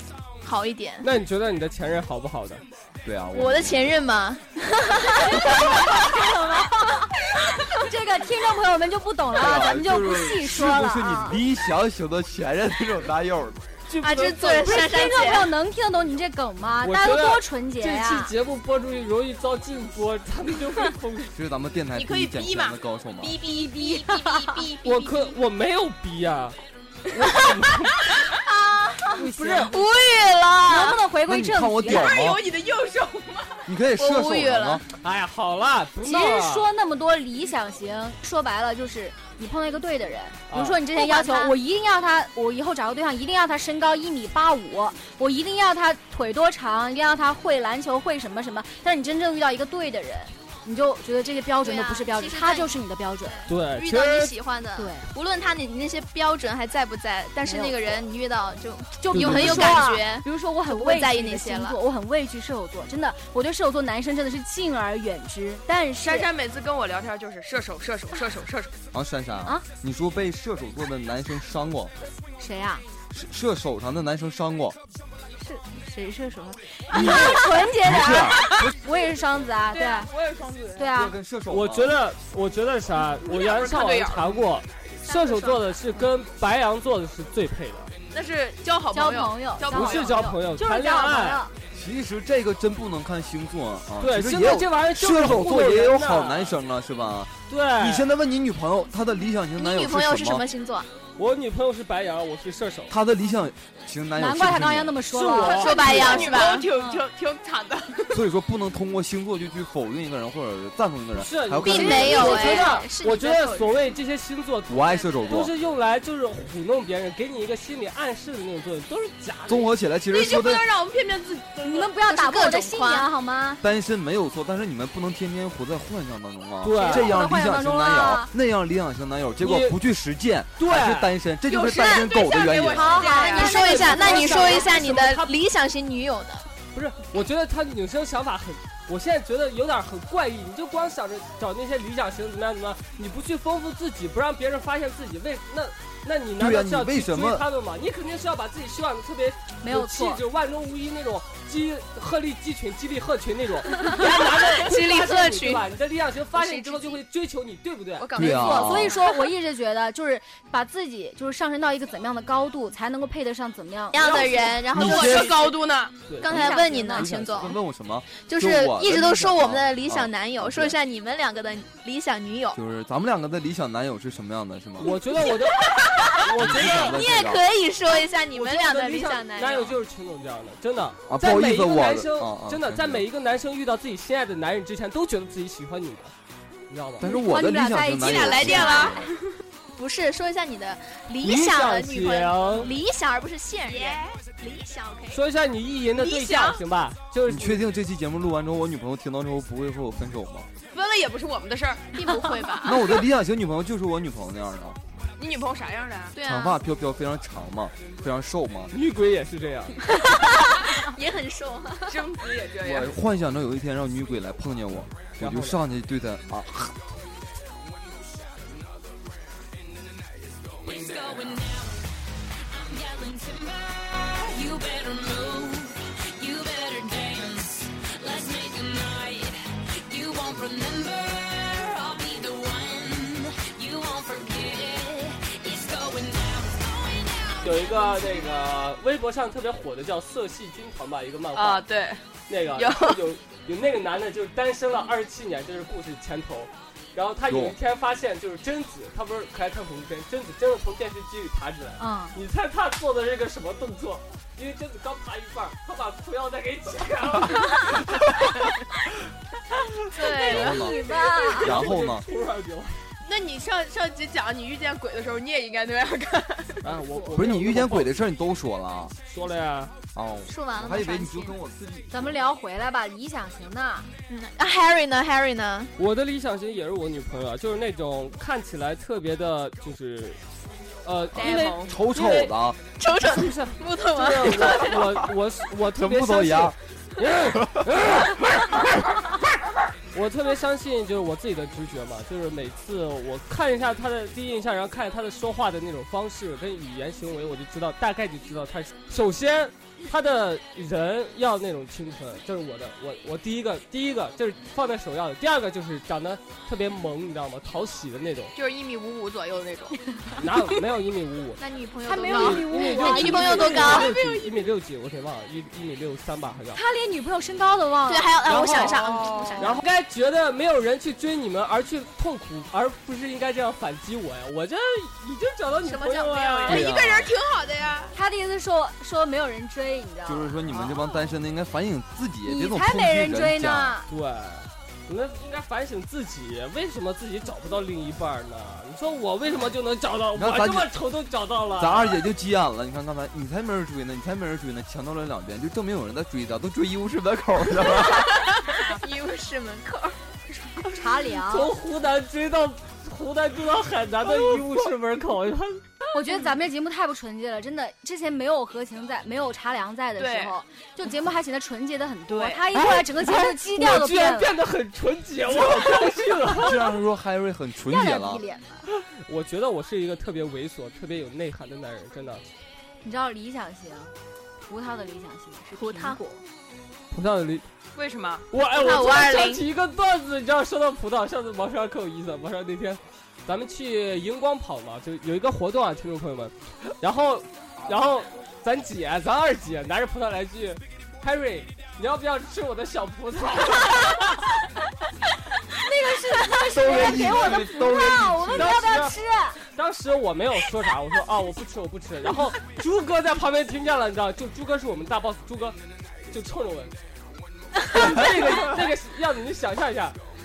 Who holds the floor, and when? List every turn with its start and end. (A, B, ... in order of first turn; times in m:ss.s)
0:00.4-0:01.1 A
0:01.0-0:02.6 B
0:03.0-0:03.8 C
0:03.3-0:05.7 A
0:05.1-0:07.0 D
0:07.7-0:11.4 D
0:09.3-0:13.7 C
0:13.9-0:15.0 B
0:14.0-0:15.5 A
0:14.6-0:18.3 D
0:16.8-0:21.3 B
0:21.3-0:23.4 C
0:21.9-0:25.2 E
0:23.6-0:24.6 D
0:24.8-0:26.6 B
0:27.1-0:28.0 B
0:27.2-0:27.5 A
0:28.1-0:29.2 E
0:29.2-0:29.7 B
0:29.2-0:29.8 D
0:29.7-0:31.0 A
0:30.7-0:32.3 D
0:31.2-0:32.4 C
0:31.9-0:33.7 E
0:33.7-0:34.8 C
0:34.0-0:34.8 A
0:35.0-0:36.7 B
0:36.0-0:53.5 D
0:40.5-0:40.8 B
0:40.9-0:41.5 A
0:51.6-1:01.8 A
0:53.5-0:54.3 B
0:54.8-0:55.1 D
0:57.4-0:58.0 D
0:59.0-1:06.3 D
0:59.1-0:59.8 B
1:06.0-1:08.7 E
1:08.9-1:11.9 C
1:12.4-1:12.8 D
1:13.1-1:14.8 C
1:15.4-1:20.1 D
1:16.9-1:17.3 C
1:17.8-1:18.4 C
1:19.7-1:20.9 E
1:20.8-1:21.1 D
1:20.9-1:22.0 C
1:21.5-1:27.9 B
1:23.2-1:24.5 E
1:28.1-1:30.3 E
1:28.9-1:31.5 D
1:29.7-1:31.4 B
1:31.7-1:40.4 C
1:34.0-1:36.6 B
1:37.5-1:38.1 B
1:39.6-1:40.9 A
1:41.2-1:42.9 B
1:42.9-1:45.0 C
1:44.2-1:45.9 D
1:45.1-1:45.9 B
1:45.4-1:46.7 A
1:45.6-1:48.2 E
1:45.8-1:46.3 C
1:48.1-1:52.4 C
1:51.1-1:59.7 B
1:51.6-1:53.3 A
1:51.6-1:52.9 D
1:53.3-1:53.7 E
1:54.7-1:55.5 C
1:59.5-2:00.6 C
2:00.1-2:01.9 E
2:01.6-2:03.6 D
2:02.0-2:03.1 A
2:03.6-2:13.0 C
2:06.6-2:07.1 B
2:06.8-2:08.3 D
2:09.4-2:09.8 B
2:10.6-2:11.1 B
2:11.5-2:13.8 E
2:12.7-2:14.7 D
2:13.2-2:16.5 A
2:13.4-2:15.3 B
2:16.7-2:38.1 B
2:26.4-2:27.4 C
2:29.6-2:30.2 D
2:34.2-2:35.6 A
2:36.3-2:37.0 A
2:38.0-2:39.2 E
2:38.2-2:39.0 C
2:38.2-2:44.1 D
2:38.5-2:38.8 A
2:43.9-2:45.5 A
2:44.0-2:46.0 E
2:44.7-2:45.4 C
2:46.1-2:46.4 B
2:46.2-2:47.6 A
2:46.3-2:47.5 D
2:46.9-2:50.7 C
2:48.2-2:52.6 A
2:52.5-2:55.0 C
2:54.8-2:57.0 B
2:55.2-2:59.7 A
2:56.3-2:57.4 C
2:58.3-3:06.1 B
3:01.1-3:03.1 C
3:06.7-3:07.1 B
3:07.0-3:09.0 C
3:07.0-3:09.1 D
3:08.1-3:09.1 E
3:08.5-3:08.9 A
3:09.7-3:15.2 A
3:11.2-3:12.7 B
3:13.6-3:14.2 E
3:15.1-3:17.6 B
3:16.0-3:16.6 E
3:17.2-3:20.5 C
3:20.7-3:22.7 E
3:22.0-3:22.7 A
3:22.6-3:24.8 C
3:25.2-3:26.1 E
3:26.1-3:26.6 A
3:26.2-3:28.7 C
3:28.7-3:29.8 B
3:29.9-3:32.0 A
3:31.9-3:32.9 E
3:32.6-3:36.7 C
3:35.2-3:35.6 B
3:40.9-3:41.6 F
3:42.8-3:45.7 F
3:46.3-3:49.3 F
3:50.2-3:56.7 F
3:57.4-4:01.6 B
4:01.3-4:03.0 E
4:02.3-4:17.8 B
4:07.3-4:07.6 C
4:11.8-4:12.2 D
4:19.9-4:20.5 E
4:20.0-4:21.7 D
4:20.2-4:20.8 C
4:21.3-4:22.8 B
4:21.4-4:22.0 C
4:23.0-4:26.6 E
4:26.6-4:28.0 B
4:26.9-4:27.2 D
4:27.1-4:28.9 C
4:29.1-4:29.7 B
4:29.9-4:32.2 C
4:30.3-4:31.4 A
4:31.9-4:33.9 D
4:34.2-4:35.7 A
4:35.8-4:40.2 B
4:40.8-4:42.4 B
4:41.1-4:41.8 E
4:41.1-4:42.6 C
4:42.8-4:44.9 A
4:43.0-4:48.8 B
4:45.7-4:46.5 C
4:49.9-5:08.3 B
5:08.3-5:09.8 E
5:10.2-5:11.4 B
5:11.4-5:13.9 A
5:11.8-5:14.3 E
5:11.8-5:13.9 D
5:12.6-5:16.6 B
5:16.5-5:19.6 D
5:17.9-5:19.6 A
5:18.3-5:18.8 B
5:18.8-5:19.4 E
5:19.4-5:26.8 B
5:25.6-5:26.6 A
5:26.4-5:27.9 E
5:26.5-5:27.0 C
5:27.9-5:30.4 D
5:30.0-5:33.8 C
5:30.7-5:31.0 E
5:32.2-5:33.9 D
5:33.9-5:42.0 B
5:40.1-5:40.7 C
5:41.6-5:48.2 C
5:47.8-5:50.4 A
5:50.7-5:51.5 D
5:51.3-5:55.7 B
5:55.9-6:04.3 D
6:00.0-6:00.4 E
6:02.1-6:02.4 E
6:02.6-6:06.6 B
6:05.2-6:08.2 C
6:07.7-6:08.6 D
6:09.0-6:12.2 B
6:12.8-6:13.9 D
6:14.5-6:16.2 D
6:15.5-6:16.0 A
6:16.9-6:17.5 B
6:17.7-6:18.2 E
6:18.3-6:34.2 B
6:18.5-6:19.4 A
6:35.6-6:39.4 D
6:36.5-6:38.6 C
6:38.3-6:39.0 B
6:39.5-6:45.6 B
6:46.1-6:46.7 B
6:47.6-6:50.0 B